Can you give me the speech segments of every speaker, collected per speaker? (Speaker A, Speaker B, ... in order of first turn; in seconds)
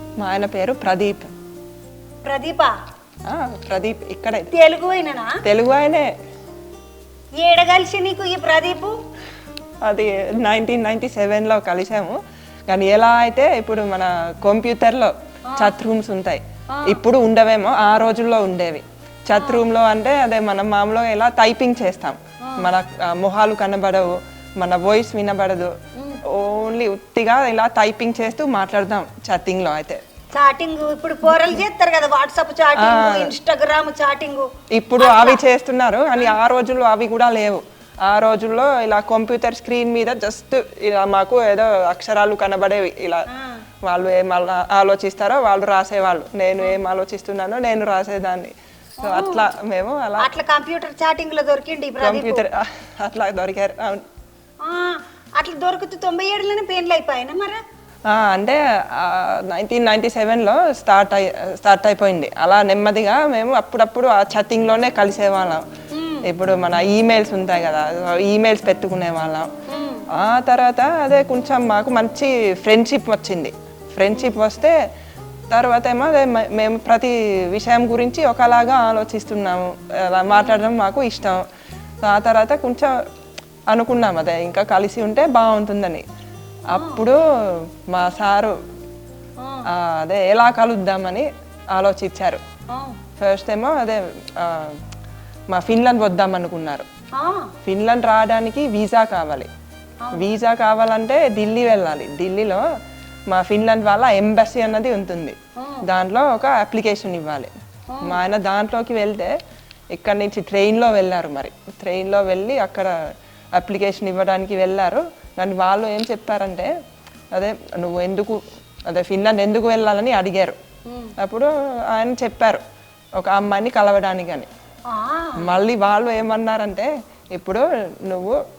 Speaker A: 0.2-1.3, 3.3-4.5, 5.5-6.1, 9.8-12.2, 12.7-25.7, 26.3-30.0, 32.8-33.3, 34.8-43.3, 43.9-50.3, 52.0-54.0, 58.1-65.7, 66.2-69.5, 70.1-74.8, 75.5-81.4, 82.0-83.0, 83.7-86.0, 86.7-88.6, 89.7-92.4, 93.2-94.8, 95.5-96.9, 97.7-99.5, 100.1-102.7, 103.3-107.5, 108.0-109.3, 109.9-113.0, 113.5-116.7, 117.3-120.6, 121.2-122.6, 123.2-124.5, 125.4-128.4
Speaker B: 2.2-2.7, 4.5-5.4, 7.4-9.0, 16.7-17.0, 19.4-19.6, 22.4-22.7, 30.4-35.4, 43.3-43.6, 49.0-49.5, 50.2-52.4, 54.6-57.6, 65.9-66.3, 69.7-70.0, 86.7-87.0, 89.4-89.7, 92.7-93.0, 97.2-97.5, 105.6-105.8, 107.9-108.2, 120.9-121.2, 124.9-125.4